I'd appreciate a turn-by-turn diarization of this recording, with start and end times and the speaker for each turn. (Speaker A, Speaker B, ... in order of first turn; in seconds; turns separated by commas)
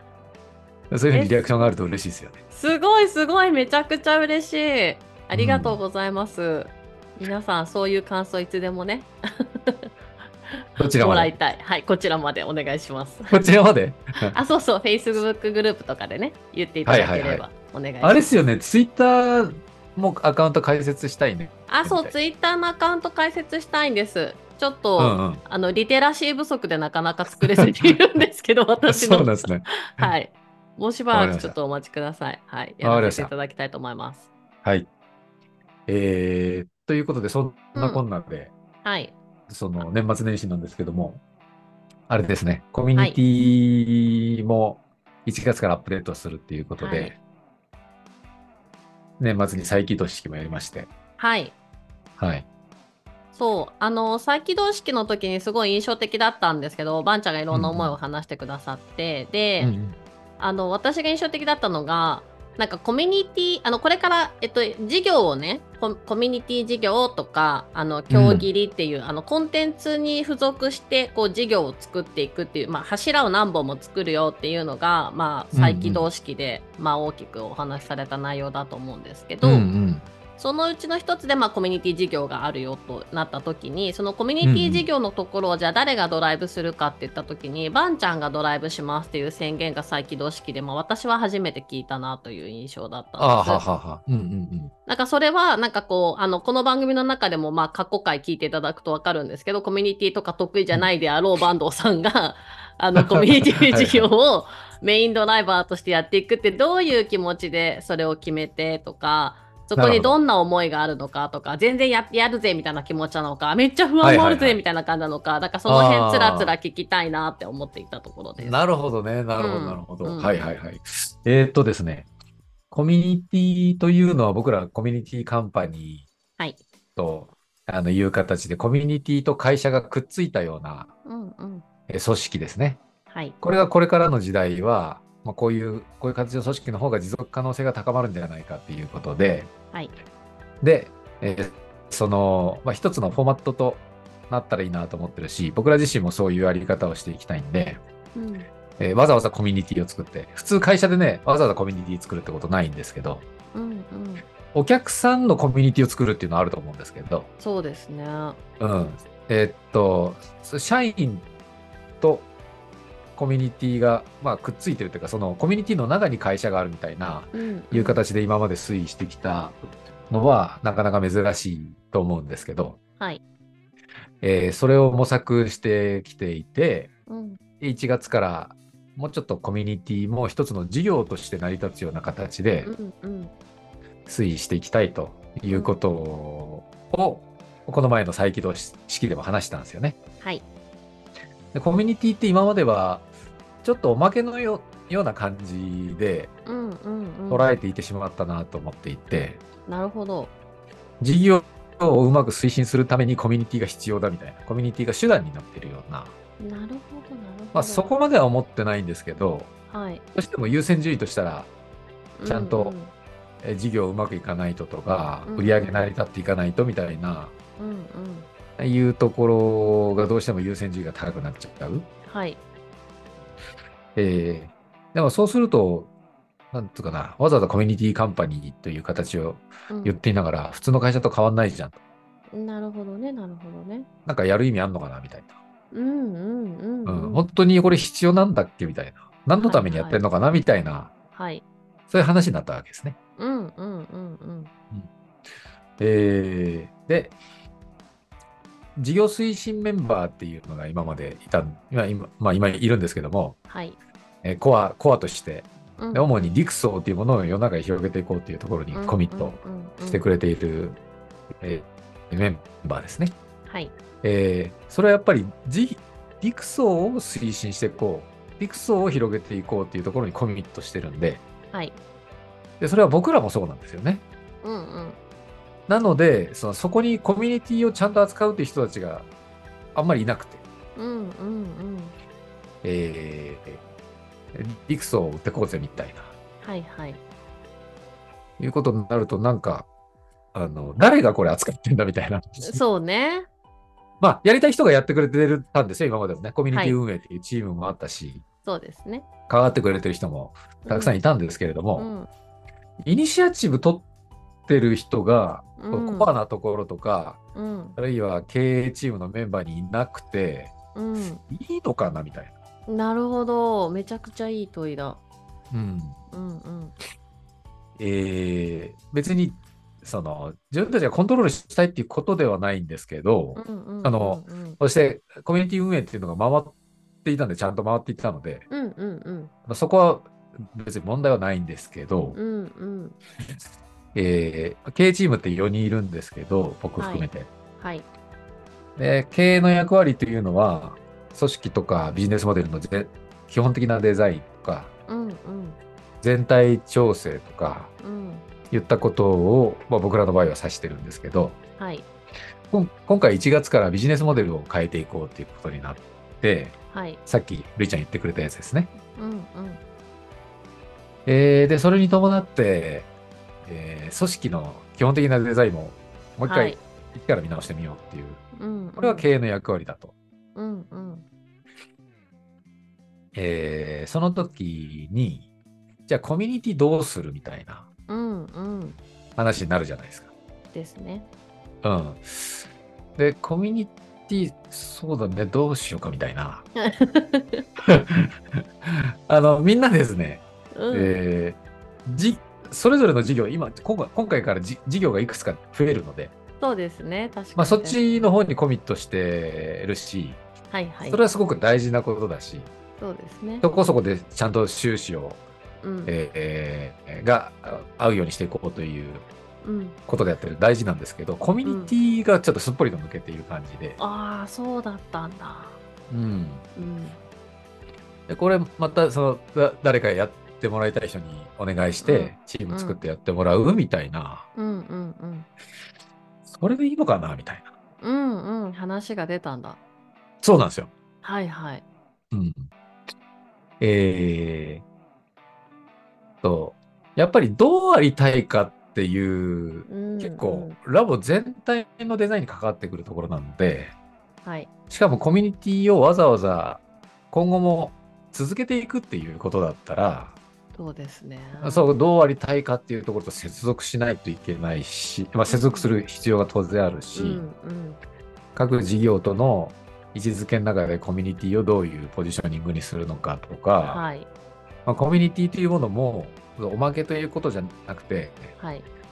Speaker A: 0.9-2.4, Speaker B: 1.1-1.6, Speaker B: 2.5-9.8, Speaker A: 5.3-5.8, Speaker A: 10.8-11.3, Speaker B: 10.8-13.4, Speaker A: 13.3-14.3, Speaker B: 14.3-18.3, Speaker A: 16.9-17.4, Speaker A: 18.0-22.1, Speaker B: 21.7-34.3, Speaker A: 25.0-25.4, Speaker A: 27.4-28.2, Speaker A: 28.9-30.1, Speaker A: 31.1-31.6, Speaker A: 32.8-33.3, Speaker A: 35.9-38.5, Speaker B: 37.7-38.0, Speaker B: 38.8-39.2, Speaker A: 39.5-41.2, Speaker A: 42.1-47.2, Speaker B: 46.8-47.1, Speaker A: 49.2-50.9, Speaker B: 51.2-51.5, Speaker A: 52.2-52.5, Speaker B: 53.3-59.7, Speaker A: 57.5-58.0, Speaker A: 59.6-60.0, Speaker B: 60.4-79.7, Speaker A: 68.1-68.5, Speaker A: 75.5-76.0, Speaker A: 79.4-80.0, Speaker B: 80.4-93.6, Speaker A: 84.4-84.8, Speaker A: 93.2-94.7, Speaker B: 94.8-118.6, Speaker A: 103.0-104.1, Speaker A: 109.7-110.2, Speaker A: 114.0-114.6, Speaker A: 115.7-116.5, Speaker A: 118.4-122.1, Speaker B: 119.4-120.5, Speaker A: 122.7-126.1, Speaker A: 127.0-130.9, Speaker B: 131.0-131.6, Speaker A: 131.9-132.8, Speaker B: 133.1-133.3, Speaker A: 133.4-139.5, Speaker A: 140.6-147.8, Speaker B: 148.1-148.5, Speaker A: 148.8-153.2, Speaker B: 153.5-154.2, Speaker A: 154.5-157.3, Speaker B: 157.4-158.4, Speaker A: 158.6-161.2, Speaker A: 162.0-162.3, Speaker A: 163.2-169.6, Speaker B: 167.3-168.0, Speaker A: 170.1-172.8, Speaker A: 174.2-176.9, Speaker B: 177.1-177.4, Speaker A: 177.6-182.7, Speaker B: 182.6-183.3, Speaker A: 184.1-190.0, Speaker B: 185.5-185.7, Speaker A: 191.5-193.1, Speaker A: 193.6-196.3, Speaker B: 196.4-197.5, Speaker A: 197.3-199.4, Speaker B: 199.7-200.3, Speaker A: 201.0-206.1, Speaker B: 206.4-207.9, Speaker A: 207.5-209.5, Speaker B: 209.7-210.0, Speaker A: 210.1-211.5, Speaker B: 212.2-212.9, Speaker A: 212.3-212.7, Speaker A: 213.4-217.3, Speaker B: 215.3-215.9, Speaker B: 217.6-218.3, Speaker A: 218.6-221.9, Speaker B: 222.1-222.4, Speaker A: 223.9-225.9, Speaker A: 226.5-231.8, Speaker B: 229.7-230.0, Speaker B: 232.3-233.9, Speaker A: 234.1-235.3, Speaker B: 235.7-237.2, Speaker A: 236.8-240.9, Speaker B: 239.4-240.0, Speaker B: 241.1-241.4, Speaker A: 241.9-242.9, Speaker B: 243.2-244.5, Speaker A: 245.8-247.2, Speaker A: 248.8-253.4, Speaker B: 253.5-253.8, Speaker A: 254.2-260.8, Speaker B: 255.8-256.1, Speaker B: 258.7-260.1, Speaker A: 261.4-263.1, Speaker B: 263.5-263.7, Speaker A: 264.0-271.2, Speaker A: 272.6-274.0, Speaker B: 274.4-275.0, Speaker A: 275.7-279.1, Speaker A: 279.7-280.4, Speaker B: 280.8-281.9, Speaker A: 282.6-283.6, Speaker A: 284.3-286.1, Speaker B: 286.4-287.0, Speaker A: 288.4-289.7, Speaker A: 290.3-292.6, Speaker B: 292.4-293.3, Speaker A: 294.0-298.2, Speaker B: 296.5-296.8, Speaker B: 298.4-299.1, Speaker A: 299.3-301.9, Speaker B: 300.6-300.9, Speaker B: 301.8-302.1, Speaker A: 302.8-303.8, Speaker A: 304.5-307.2, Speaker B: 305.6-306.1, Speaker B: 307.3-307.8, Speaker A: 307.8-310.5, Speaker B: 310.7-311.2, Speaker A: 311.3-312.3, Speaker B: 312.7-315.0, Speaker A: 315.5-316.0, Speaker B: 316.1-316.7, Speaker A: 317.8-328.4, Speaker B: 323.4-324.6, Speaker B: 328.5-329.3, Speaker A: 329.5-332.2, Speaker B: 332.1-332.9, Speaker A: 333.9-337.3, Speaker B: 336.8-337.9, Speaker A: 338.8-344.7, Speaker B: 344.9-345.6, Speaker A: 346.0-347.7, Speaker B: 347.8-348.3, Speaker A: 348.5-351.4, Speaker B: 351.6-351.9, Speaker A: 352.5-356.5, Speaker B: 356.7-357.0, Speaker A: 357.1-358.7, Speaker B: 358.9-359.6, Speaker A: 361.1-362.9, Speaker A: 363.4-368.2, Speaker B: 366.2-366.6, Speaker B: 368.4-369.1, Speaker A: 368.8-369.9, Speaker B: 370.3-371.0, Speaker A: 373.1-375.3, Speaker A: 375.9-377.6, Speaker B: 377.9-378.8, Speaker A: 379.2-380.1, Speaker B: 380.5-381.1, Speaker A: 381.6-382.4, Speaker A: 383.0-386.4, Speaker B: 386.6-387.4, Speaker A: 387.6-396.1, Speaker B: 390.5-390.9, Speaker B: 396.4-397.9, Speaker A: 397.4-400.2, Speaker B: 400.5-401.0, Speaker A: 400.9-402.5, Speaker B: 402.8-403.4, Speaker A: 403.4-405.2, Speaker B: 405.6-405.9, Speaker A: 405.9-409.0, Speaker B: 409.4-409.8, Speaker A: 409.9-413.8, Speaker B: 411.4-411.7, Speaker B: 413.8-415.6, Speaker A: 415.9-416.4, Speaker B: 416.5-417.0, Speaker A: 418.1-424.3, Speaker B: 421.8-422.8, Speaker B: 424.3-425.3, Speaker A: 426.3-427.5, Speaker B: 427.8-429.6, Speaker A: 430.2-430.7, Speaker B: 431.0-431.6, Speaker A: 432.1-432.5, Speaker A: 433.6-434.6, Speaker A: 436.2-443.7, Speaker B: 439.7-440.6, Speaker B: 444.2-444.5, Speaker A: 444.7-446.6, Speaker A: 447.1-450.1, Speaker B: 450.5-451.7, Speaker A: 451.4-457.2, Speaker B: 455.3-455.7, Speaker B: 456.9-457.8, Speaker A: 458.4-463.8, Speaker B: 463.6-464.1, Speaker A: 464.6-468.4, Speaker B: 468.4-468.6